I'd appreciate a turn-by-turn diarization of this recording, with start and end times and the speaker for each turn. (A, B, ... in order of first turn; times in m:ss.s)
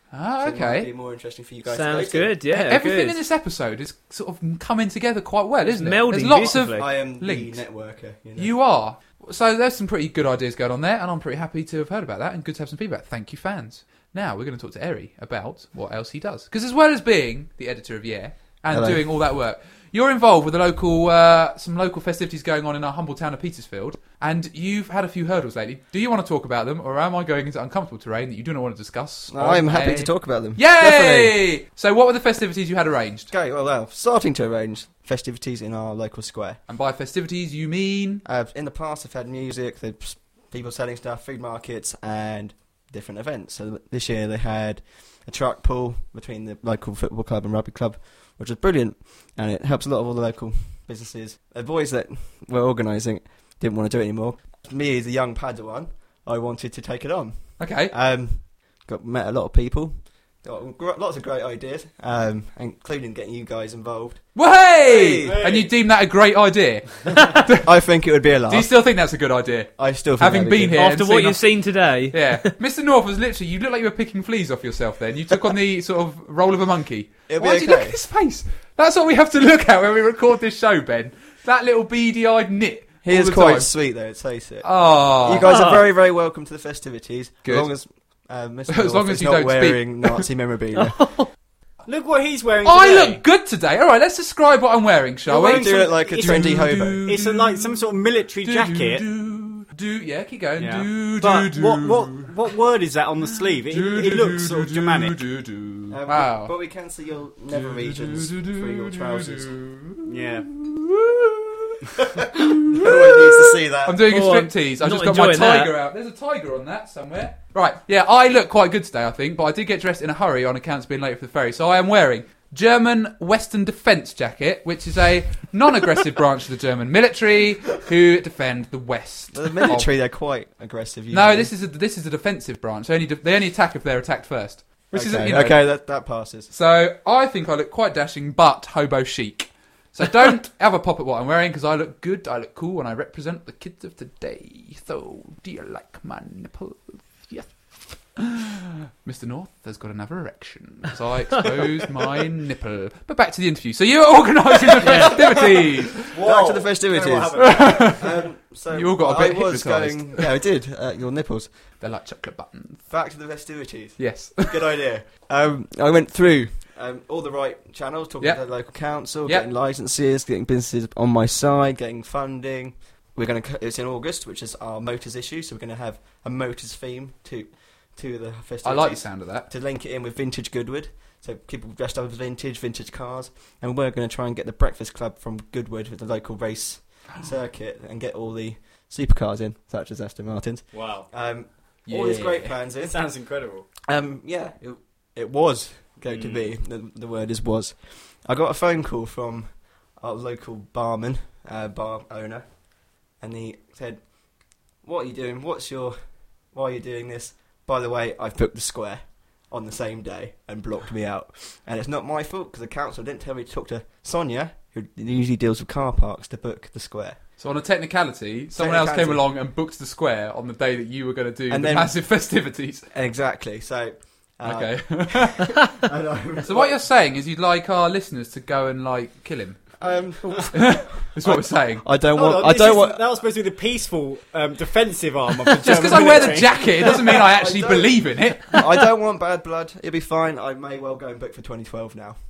0:00.1-0:00.9 A
0:00.4-0:02.3 B
0:01.7-0:03.2 C
0:02.5-0:07.6 A
0:05.6-0:06.9 C
0:06.5-0:08.5 B
0:08.4-0:33.3 A
0:18.7-0:19.0 B
0:29.3-0:31.4 B
0:33.3-0:36.6 B
0:36.7-0:38.2 A
0:38.2-1:04.3 B
0:57.6-0:57.9 A
1:04.3-1:07.7 A
1:04.8-1:05.4 B
1:05.1-1:05.7 D
1:07.6-1:08.7 B
1:08.5-1:11.4 A
1:09.8-1:10.8 B
1:10.7-1:12.5 C
1:12.1-1:23.7 A
1:17.3-1:18.0 B
1:23.0-1:31.2 B
1:24.6-1:25.5 A
1:25.4-1:25.8 C
1:28.7-1:30.2 A
1:30.7-1:31.3 C
1:31.9-1:33.2 D
1:32.6-1:37.9 A
1:35.3-1:39.0 D
1:35.4-1:37.0 B
1:38.4-1:42.3 A
1:40.6-1:45.2 D
1:43.5-1:46.5 A
1:45.9-1:49.5 B
1:47.5-1:51.8 A
1:50.1-1:50.4 D
1:52.0-1:54.0 B
1:52.4-2:09.9 A
1:54.1-1:55.7 C
2:09.3-2:11.5 B
2:11.1-2:15.7 A
2:14.9-2:16.5 B
2:16.5-2:36.1 A
2:34.8-2:38.0 D
2:34.9-2:35.1 B
2:36.2-2:41.5 B
2:37.3-2:40.3 A
2:41.8-2:42.8 A
2:42.9-3:12.9 B
2:44.0-2:44.6 A
2:58.6-2:59.5 A
3:10.7-3:11.1 D
3:11.8-3:12.5 A
3:12.8-3:13.7 D
3:13.9-3:22.4 B
3:16.1-3:16.5 D
3:23.2-3:24.0 B
3:24.8-3:26.0 B
3:26.5-3:37.2 B
3:37.4-3:42.9 A
3:38.5-3:39.2 B
3:41.5-3:41.9 B
3:42.9-3:46.8 B
3:44.4-3:45.7 A
3:46.4-3:49.6 A
3:49.8-3:53.0 B
3:50.5-3:51.8 A
3:52.1-3:56.9 D
3:55.6-3:58.7 A
3:56.8-4:02.2 B